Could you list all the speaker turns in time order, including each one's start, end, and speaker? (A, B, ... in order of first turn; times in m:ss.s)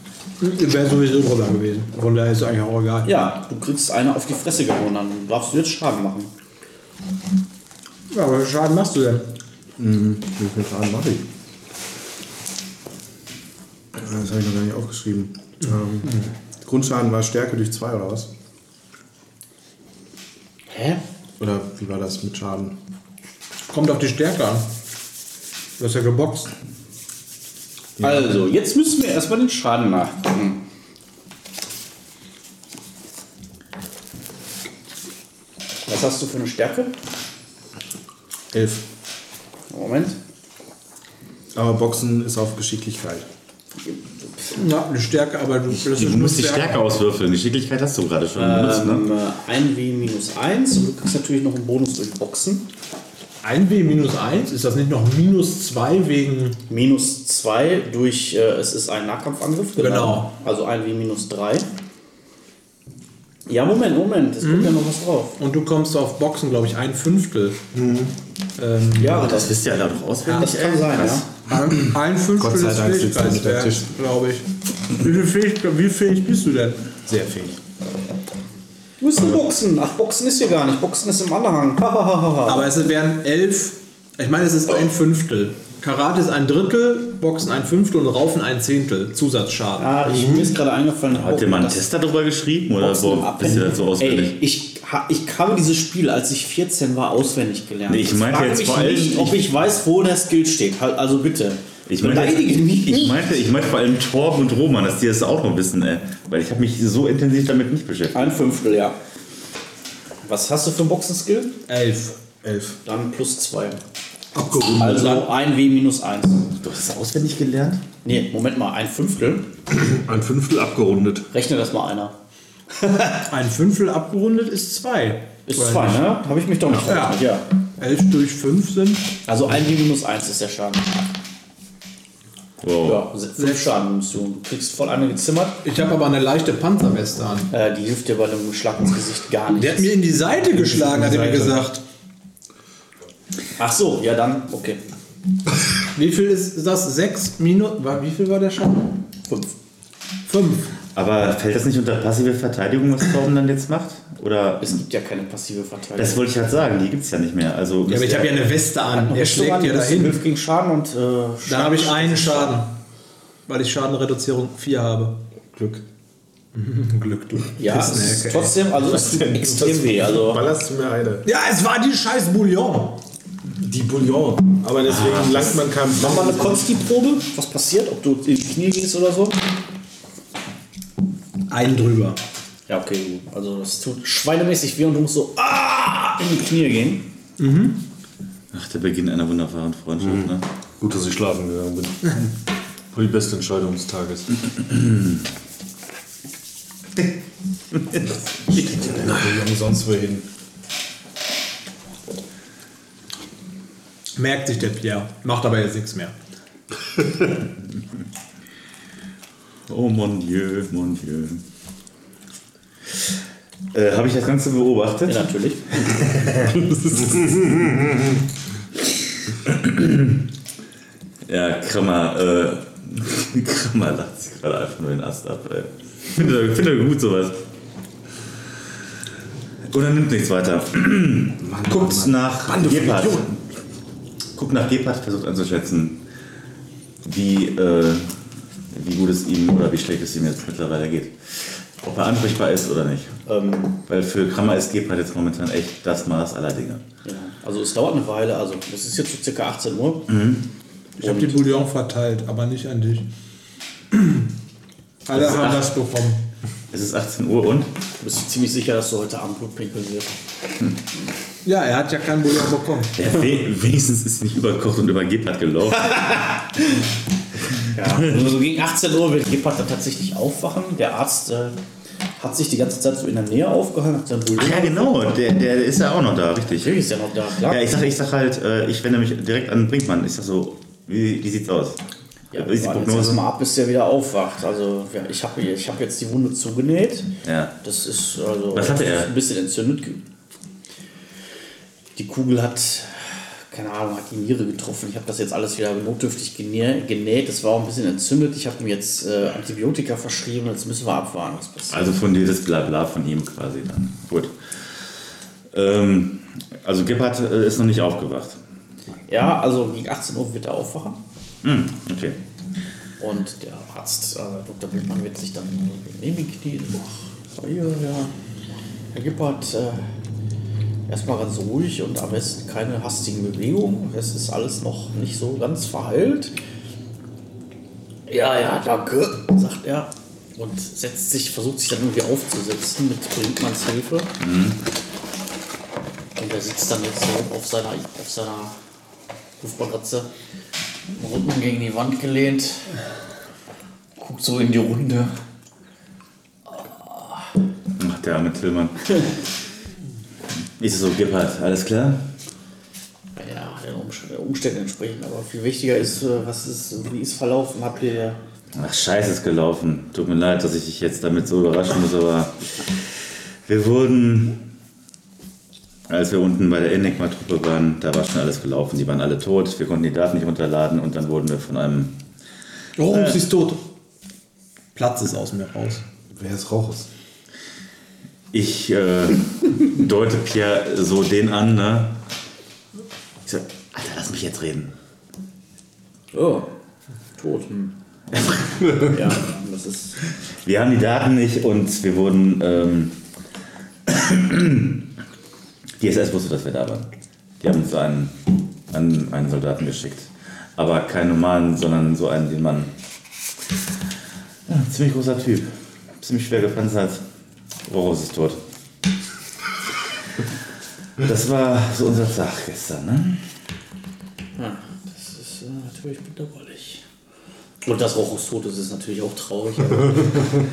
0:00.4-0:03.2 A
0:03.0-0:06.3 B
0:08.1-0:09.3 A
0:09.8-0:11.2 C
0:13.9-0:18.3 C
0:20.7-0:21.0 B
0:21.4-0:22.8 C
0:23.7-0:24.7 A
0:25.8-0:26.5 A
0:28.0-0:28.3 C
0:28.0-0:30.6 B
0:35.9-0:36.9 B
0:38.5-0:38.8 C
0:39.7-0:40.2 B
0:41.5-0:43.3 C
0:44.5-0:46.8 A
0:45.7-0:49.1 D
0:48.4-0:52.7 B
0:53.4-0:56.6 A
0:56.7-1:01.7 B
0:59.8-1:00.3 A
1:03.5-1:05.4 B
1:04.4-1:04.8 A
1:05.4-1:07.6 A
1:08.6-1:09.4 A
1:09.0-1:09.6 B
1:09.1-1:11.3 D
1:10.2-1:10.5 A
1:10.3-1:11.3 B
1:11.5-1:16.8 A
1:12.3-1:13.9 C
1:17.0-1:17.6 C
1:19.0-1:22.7 B
1:22.4-1:29.9 A
1:29.8-1:31.8 B
1:31.1-1:34.4 D
1:32.8-1:43.2 B
1:37.9-1:39.4 D
1:41.9-1:48.3 D
1:48.1-1:49.0 B
1:50.2-1:51.6 B
1:51.7-1:52.2 A
1:52.4-1:52.8 C
1:52.8-1:53.8 B
1:54.4-1:54.8 E
1:54.5-1:55.2 A
1:54.7-1:56.5 B
1:56.6-1:57.8 D
1:58.0-1:59.5 B
1:59.7-2:01.3 E
2:01.3-2:02.1 B
2:02.7-2:03.2 B
2:03.2-2:06.1 A
2:05.4-2:07.4 B
2:06.8-2:07.2 A
2:07.8-2:09.1 A
2:09.2-2:11.0 B
2:12.6-2:13.0 D
2:12.8-2:15.6 B
2:15.6-2:17.5 A
2:17.5-2:20.0 B
2:19.6-2:21.8 A
2:20.5-2:21.6 C
2:23.6-2:24.8 B
2:25.9-2:29.0 A
2:29.3-2:29.5 B
2:30.2-2:30.7 A
2:30.9-2:34.8 D
2:34.6-2:36.2 B
2:36.0-2:38.5 D
2:37.9-2:40.2 A
2:38.8-2:42.6 B
2:41.5-2:42.7 A
2:43.5-2:45.2 A
2:45.5-2:45.8 C
2:46.5-2:48.6 A
2:47.6-2:50.4 B
2:48.8-2:51.2 C
2:51.2-2:53.0 A
2:53.6-2:56.7 C
2:54.8-2:55.5 D
2:55.9-2:59.4 B
3:01.5-3:02.2 A
3:02.7-3:07.1 B
3:07.4-3:07.8 A
3:08.5-3:10.4 D
3:10.0-3:12.3 E
3:12.9-3:14.4 E
3:18.5-3:20.3 C
3:24.2-3:26.1 A
3:29.7-3:31.4 D
3:33.7-3:35.3 D
3:35.0-3:36.1 B
3:35.8-3:37.2 D
3:39.4-3:40.2 D
3:41.3-3:47.4 D
3:49.7-3:53.4 D
3:51.4-3:53.4 C
3:54.3-3:56.0 D
3:57.0-3:58.2 D
3:58.7-4:03.2 D
4:03.2-4:03.8 B
4:03.9-4:06.8 D
4:07.0-4:10.1 B
4:10.1-4:10.4 D
4:11.0-4:13.1 A
4:11.0-4:11.4 B
4:13.9-4:14.3 A
4:15.1-4:16.2 A
4:15.1-4:15.7 D
4:16.7-4:17.7 D
4:18.0-4:20.1 B
4:21.4-4:23.0 A
4:22.9-4:26.2 D
4:25.8-4:26.4 B
4:27.7-4:31.6 B
4:32.2-4:35.1 B
4:34.4-4:36.8 D
4:36.5-4:37.8 B
4:37.5-4:41.8 D
4:42.3-4:47.1 B
4:42.3-4:43.2 D
4:47.2-4:47.5 D
4:47.6-4:50.0 B
4:48.5-4:49.1 D
4:52.0-5:01.9 B
5:01.7-5:04.3 D
5:05.5-5:08.4 D
5:09.1-5:11.0 B
5:11.4-5:12.2 D
5:13.0-5:18.1 B
5:18.9-5:19.8 B
5:20.9-5:26.3 B
5:28.1-5:34.1 B
5:34.2-5:34.6 D
5:36.2-5:38.6 B
5:39.4-5:40.1 B
5:40.9-5:42.7 B
5:44.0-5:45.2 B
5:46.5-5:47.2 B
5:47.8-5:48.9 D
5:50.6-5:52.0 D
5:53.2-5:58.2 B
5:58.5-6:02.7 D
6:03.4-6:04.4 D
6:05.9-6:11.9 D
6:12.8-6:13.7 A
6:12.8-6:13.2 D
6:14.7-6:15.8 A
6:16.1-6:16.9 C
6:18.3-6:22.0 D
6:23.2-6:24.7 D
6:26.1-6:26.5 B
6:27.2-6:27.8 B
6:28.7-6:30.0 B
6:30.4-6:33.0 D
6:33.9-6:34.9 D
6:35.8-6:42.7 D
6:44.5-6:47.0 D
6:47.6-6:48.4 D
6:51.0-6:53.2 D
6:54.4-6:56.8 B
6:57.6-7:00.2 B